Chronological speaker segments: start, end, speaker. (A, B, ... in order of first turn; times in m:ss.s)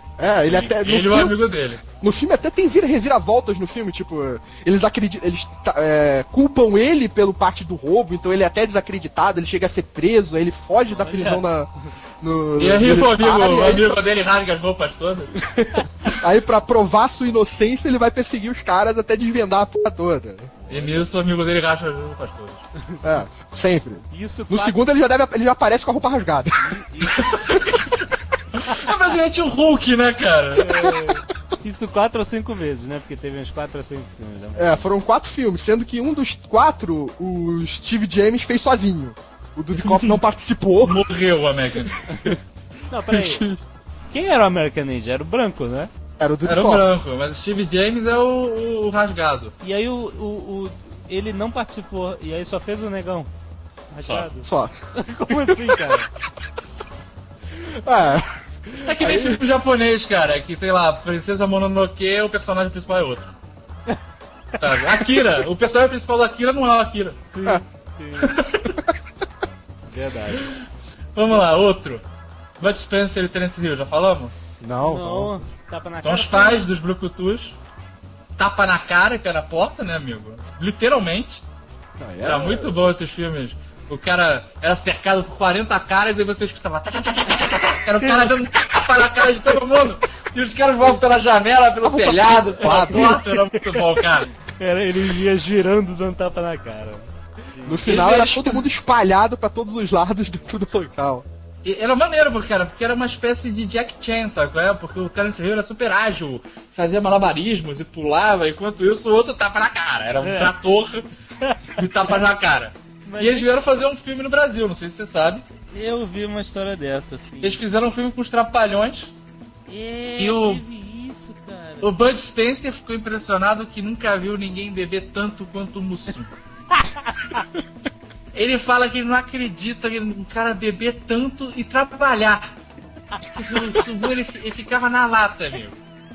0:00.2-0:01.4 A
0:00.5-0:01.8 B
0:01.9-0:14.3 A
0:10.9-0:11.5 C
0:12.6-0:15.3 B
0:15.4-0:20.7 A
0:20.7-0:21.0 C
0:20.7-0:22.6 B
0:23.0-0:26.8 A
0:24.1-0:24.8 C
0:26.6-0:27.4 C
0:27.2-0:27.7 B
0:28.5-0:30.7 B
0:30.6-0:34.9 C
0:30.8-0:31.1 A
0:34.6-0:41.0 A
0:39.7-0:40.2 B
0:40.8-0:42.1 B
0:42.1-0:42.4 C
0:42.9-0:43.4 C
0:43.1-0:43.6 A
0:44.1-0:45.9 C
0:46.2-0:47.0 A
0:46.4-0:49.5 B
0:49.6-0:53.3 C
0:53.9-0:56.1 C
0:54.0-0:54.3 B
0:54.4-0:54.7 A
0:55.3-0:55.8 A
0:57.5-0:59.4 A
0:58.8-1:03.3 B
1:04.6-1:07.2 B
1:07.3-1:08.4 C
1:08.2-1:08.8 B
1:09.9-1:10.5 C
1:10.4-1:10.6 B
1:11.2-1:12.0 B
1:12.6-1:14.3 B
1:14.6-1:15.4 A
1:14.8-1:16.7 C
1:16.0-1:17.6 B
1:18.4-1:21.4 B
1:22.0-1:22.8 A
1:22.2-1:34.3 B
1:28.0-1:28.3 C
1:31.8-1:33.2 A
1:32.6-1:37.9 C
1:37.6-1:41.3 A
1:37.8-1:38.7 B
1:41.6-1:51.1 B
1:50.2-1:50.5 C
1:51.4-1:51.8 C
1:51.8-1:55.4 B
1:53.0-1:53.5 C
1:55.7-1:57.6 C
1:57.4-1:59.1 B
1:59.7-2:02.0 C
2:00.2-2:00.6 B
2:01.8-2:06.3 B
2:06.8-2:07.4 C
2:08.3-2:12.5 B
2:13.2-2:13.6 C
2:13.3-2:15.8 B